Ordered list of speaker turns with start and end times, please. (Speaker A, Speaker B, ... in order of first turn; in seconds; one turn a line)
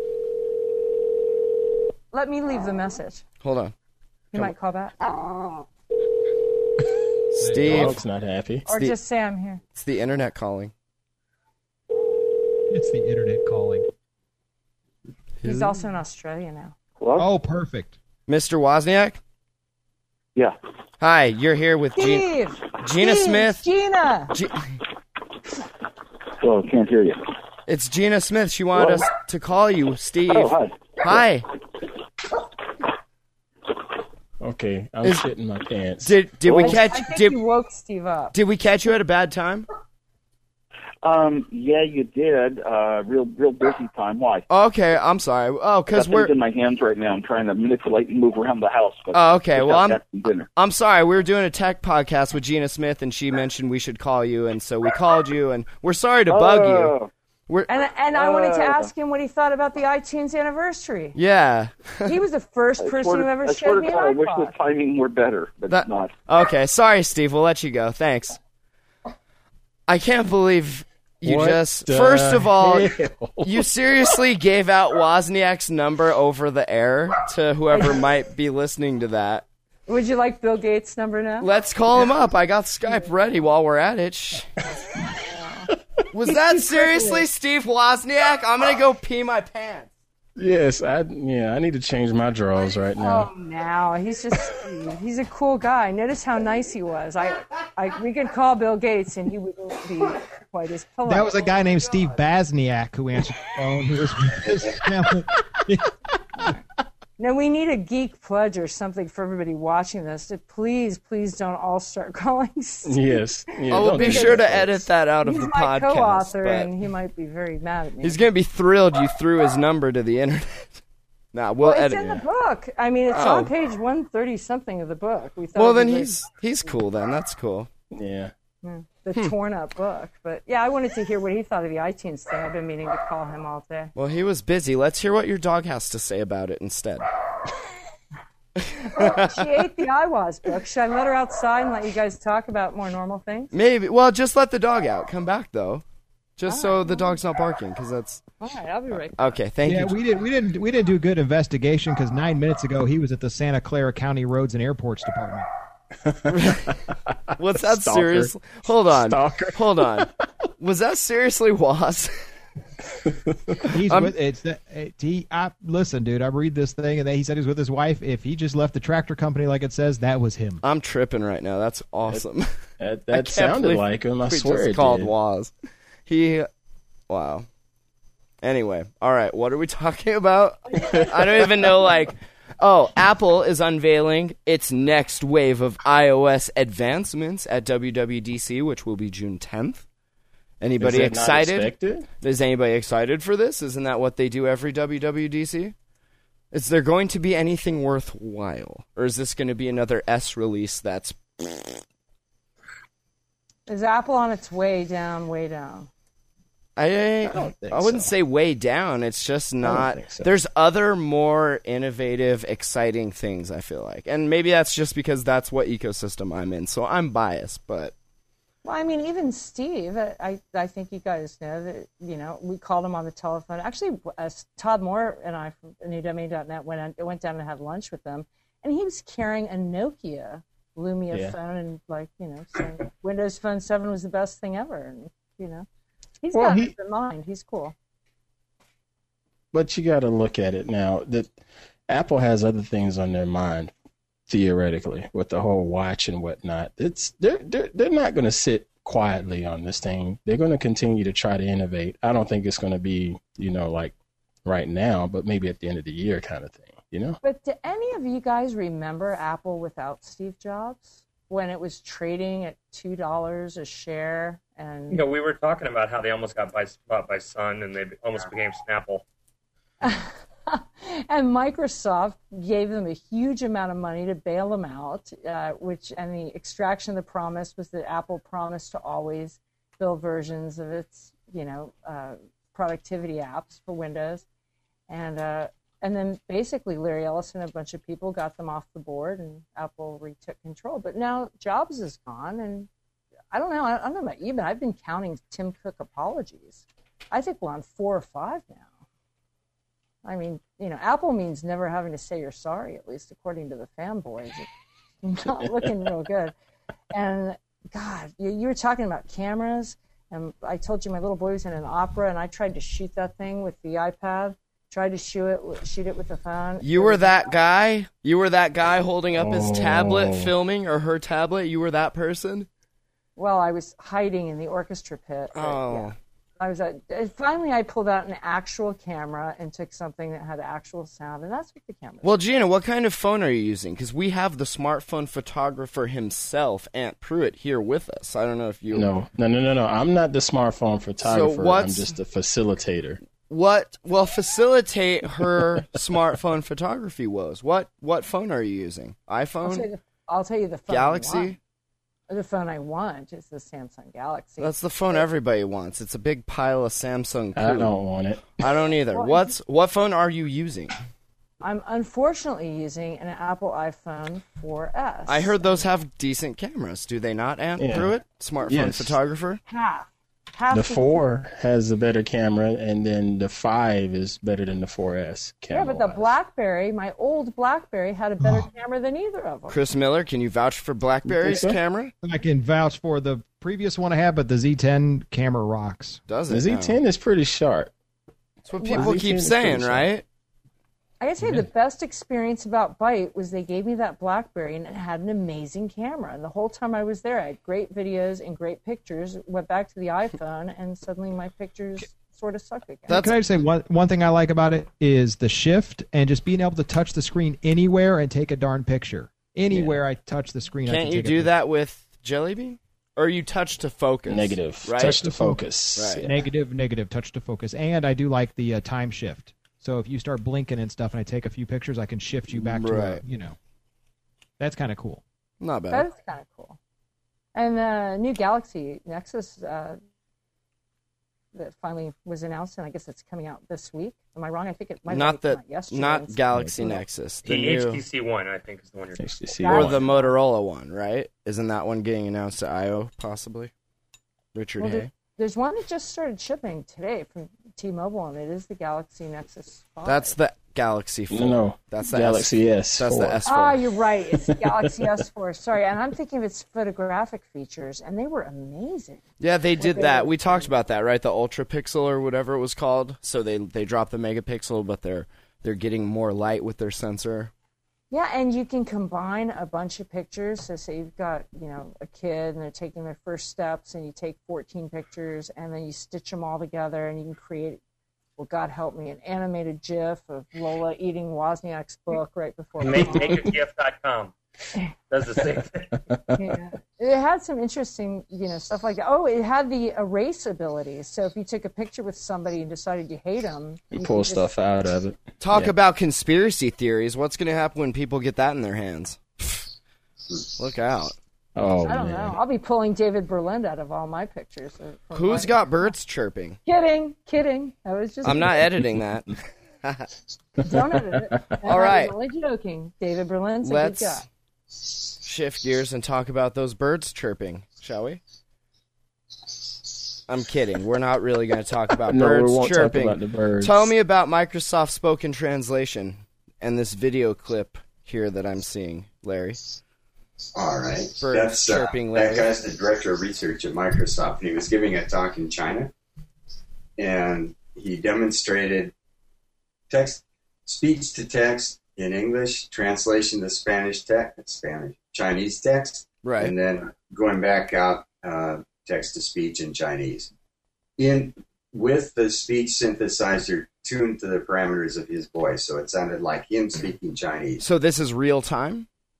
Speaker A: 2.1-3.2
Speaker B: 3.4-3.7
Speaker A: 4.3-5.0
Speaker B: 7.3-8.0
Speaker C: 7.4-7.9
Speaker D: 7.6-8.7
Speaker A: 8.7-9.6
Speaker B: 9.7-10.7
Speaker C: 12.7-13.9
Speaker B: 15.4-15.7
Speaker A: 15.4-16.8
Speaker E: 17.0-17.3
Speaker C: 17.2-17.9
Speaker B: 18.3-19.2
Speaker B: 21.0-23.6
Speaker A: 21.9-24.3
Speaker B: 24.3-24.7
Speaker E: 26.4-27.2
Speaker B: 27.7-31.4
Speaker E: 28.7-29.1
Speaker E: 30.3-31.2
Speaker D: 34.4-36.2
Speaker B: 35.0-35.3
Speaker B: 36.0-37.4
Speaker E: 36.4-36.8
Speaker A: 36.6-38.3
Speaker B: 38.3-39.7
Speaker E: 41.0-44.4
Speaker B: 44.5-46.3
Speaker E: 45.9-50.5
Speaker B: 49.1-50.0
Speaker B: 50.5-56.9
Speaker E: 56.3-57.1
Speaker A: 57.7-61.2
Speaker E: 58.1-58.9
Speaker B: 61.1-62.1
Speaker A: 62.0-64.5
Speaker E: 62.8-66.1
Speaker B: 65.7-68.4
Speaker B: 69.9-79.4
Speaker D: 71.2-73.7
Speaker A: 77.7-78.0
Speaker A: 79.9-81.5
Speaker B: 81.4-84.5
Speaker A: 85.2-85.7
Speaker B: 86.1-89.9
Speaker A: 86.2-87.3
Speaker D: 90.4-93.3
Speaker A: 93.0-101.5
Speaker C: 101.0-105.9
Speaker A: 107.2-114.4
Speaker D: 112.8-114.8
Speaker B: 113.7-116.7
Speaker A: 115.2-118.2
Speaker B: 118.0-120.8
Speaker B: 121.3-122.2
Speaker A: 121.6-126.2
Speaker B: 123.1-123.5
Speaker B: 125.5-127.7
Speaker D: 127.9-128.3
Speaker A: 128.6-133.9
Speaker B: 133.9-137.1
Speaker B: 138.6-139.4
Speaker A: 138.8-143.5
Speaker B: 143.5-145.8
Speaker B: 146.4-148.2
Speaker A: 146.5-147.2
Speaker A: 148.4-149.4
Speaker B: 149.2-149.9
Speaker C: 149.6-155.5
Speaker D: 156.1-160.1
Speaker B: 156.3-156.7
Speaker B: 157.4-162.1
Speaker C: 163.6-170.6
Speaker B: 170.6-172.5
Speaker D: 172.8-175.1
Speaker B: 173.1-175.5
Speaker B: 176.1-176.5
Speaker B: 177.1-177.5
Speaker B: 178.4-189.8
Speaker B: 190.6-195.7
Speaker D: 190.8-192.1
Speaker B: 196.5-201.8
Speaker A: 203.7-205.9
Speaker B: 206.8-217.9
Speaker D: 207.2-208.1
Speaker D: 209.6-210.3
Speaker A: 218.6-235.7
Speaker A: 236.2-237.7
Speaker D: 236.3-236.7
Speaker D: 239.5-241.3
Speaker D: 241.9-243.7
Speaker D: 244.3-253.9
Speaker D: 254.4-257.2
Speaker A: 257.2-265.0
Speaker F: 264.9-269.0
Speaker A: 269.8-284.2
Speaker A: 284.9-292.7
Speaker A: 293.3-298.7
Speaker A: 300.0-304.5
Speaker A: 305.0-306.3
Speaker A: 306.9-317.3
Speaker B: 316.6-322.5
Speaker D: 319.1-320.3
Speaker A: 323.1-332.2
Speaker B: 325.3-325.9
Speaker B: 332.0-338.9
Speaker D: 338.7-343.0
Speaker B: 341.0-341.9
Speaker B: 343.3-349.7
Speaker A: 349.4-351.4
Speaker B: 350.7-351.4
Speaker A: 352.1-355.0
Speaker B: 354.4-357.7
Speaker D: 357.3-358.4
Speaker B: 358.4-360.7
Speaker A: 358.9-359.3
Speaker A: 361.4-365.6
Speaker B: 365.1-369.4
Speaker D: 367.6-367.9
Speaker D: 368.4-369.0
Speaker A: 369.5-371.0
Speaker D: 370.5-376.1
Speaker A: 375.5-379.6
Speaker C: 378.2-378.5
Speaker B: 379.5-381.9
Speaker D: 381.1-381.6
Speaker C: 382.0-386.0
Speaker B: 386.1-386.8
Speaker D: 386.3-387.7
Speaker B: 388.5-390.0
Speaker A: 388.6-389.0
Speaker D: 388.7-389.9
Speaker A: 391.0-403.1
Speaker B: 402.9-403.1
Speaker C: 402.9-411.3
Speaker B: 410.6-415.0
Speaker D: 414.1-416.1
Speaker C: 414.8-415.5
Speaker B: 415.7-416.0
Speaker C: 416.0-423.4
Speaker B: 422.3-423.0
Speaker C: 424.4-425.0
Speaker B: 425.4-425.9
Speaker A: 425.7-426.6
Speaker A: 427.3-429.8
Speaker A: 431.3-436.2
Speaker B: 434.9-437.8
Speaker D: 436.3-436.8
Speaker F: 437.2-439.2
Speaker D: 439.0-439.8
Speaker A: 439.4-440.1
Speaker B: 439.5-443.5
Speaker B: 444.3-444.9
Speaker A: 444.6-450.1
Speaker B: 449.8-453.6
Speaker D: 451.1-453.4
Speaker A: 453.2-459.0
Speaker D: 454.1-454.9
Speaker B: 459.2-467.3
Speaker A: 459.6-460.5
Speaker A: 467.9-477.6
Speaker A: 478.2-483.3
Speaker F: 482.6-484.1
Speaker F: 484.9-485.7
Speaker D: 485.9-486.3
Speaker A: 486.1-494.3
Speaker D: 493.7-495.5
Speaker B: 495.2-499.5
Speaker B: 500.4-501.0
Speaker D: 501.4-502.2
Speaker A: 501.6-505.7
Speaker B: 504.9-506.4
Speaker A: 506.4-508.5
Speaker B: 508.0-509.9
Speaker A: 510.4-514.0
Speaker D: 510.5-511.4
Speaker B: 511.4-511.9
Speaker B: 513.4-514.0
Speaker B: 514.9-518.0
Speaker B: 520.1-529.4
Speaker D: 521.9-523.7
Speaker G: 530.3-535.7
Speaker B: 531.0-532.3
Speaker G: 536.8-538.7
Speaker G: 539.7-550.1
Speaker B: 546.0-546.3
Speaker G: 550.8-557.4
Speaker B: 557.4-558.7